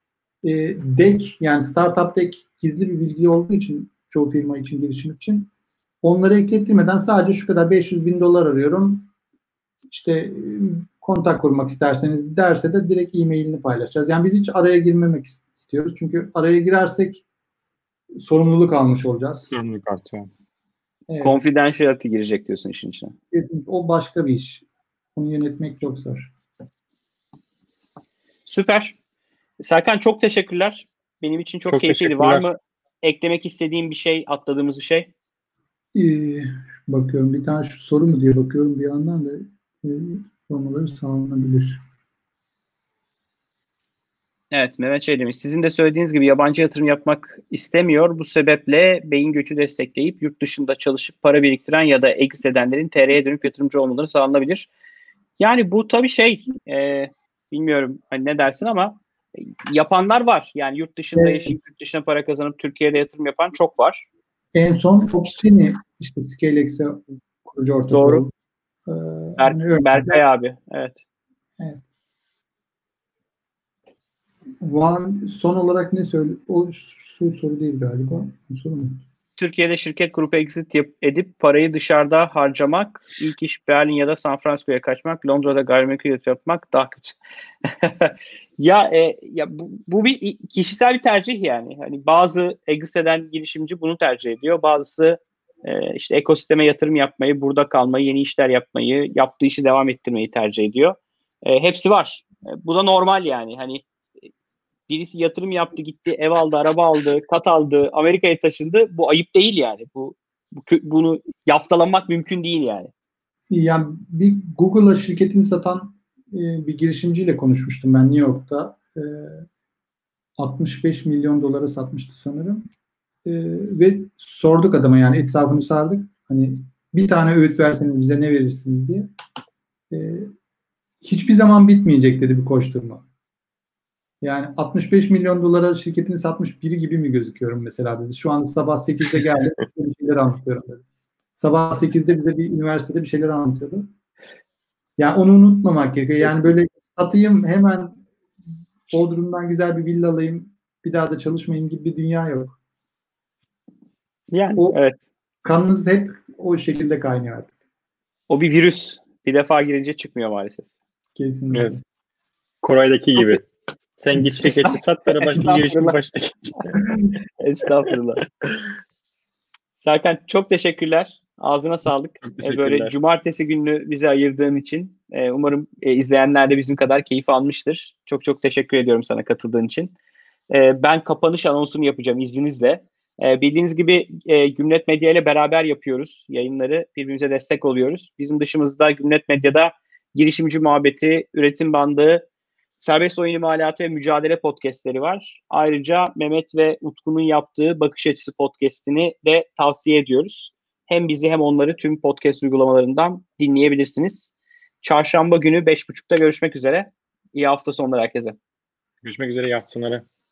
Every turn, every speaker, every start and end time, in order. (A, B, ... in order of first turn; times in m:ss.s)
0:00.4-0:05.5 A
0:06.0-0:09.1 A
0:09.9-0:17.2 A
0:18.2-0:19.5 A
0:19.5-0:20.3 B
0:21.1-0:21.4 A
0:21.2-0:23.1 C
0:23.3-0:24.6 A
0:25.2-0:26.3 A
0:28.4-0:29.0 C
0:29.6-0:35.1 C
0:31.7-0:32.5 B
0:35.9-0:41.8 A
0:44.5-0:54.7 C
0:55.4-1:04.1 C
1:01.2-1:01.5 A
1:04.5-1:08.3 A
1:07.9-1:08.2 C
1:08.9-1:10.2 A
1:09.4-1:11.0 C
1:14.6-1:19.0 A
1:19.4-1:43.8 C
1:44.9-1:52.9 C
1:53.5-1:59.4 A
2:00.4-2:02.7 A
2:03.2-2:09.1 A
2:09.9-2:10.3 A
2:11.0-2:13.0 A
2:14.2-2:20.8 A
2:21.3-2:23.9 A
2:25.0-2:28.0 A
2:28.9-2:32.6 A
2:34.3-2:35.0 C
2:35.4-2:37.5 A
2:38.3-2:40.7 C
2:41.2-2:41.8 A
2:41.5-2:41.8 B
2:42.6-2:43.4 B
2:44.0-2:46.8 B
2:44.2-2:46.0 C
2:47.4-2:48.2 C
2:49.8-2:59.9 C
2:52.2-2:52.9 B
3:00.5-3:12.2 C
3:12.8-3:28.4 C
3:29.0-3:30.0 B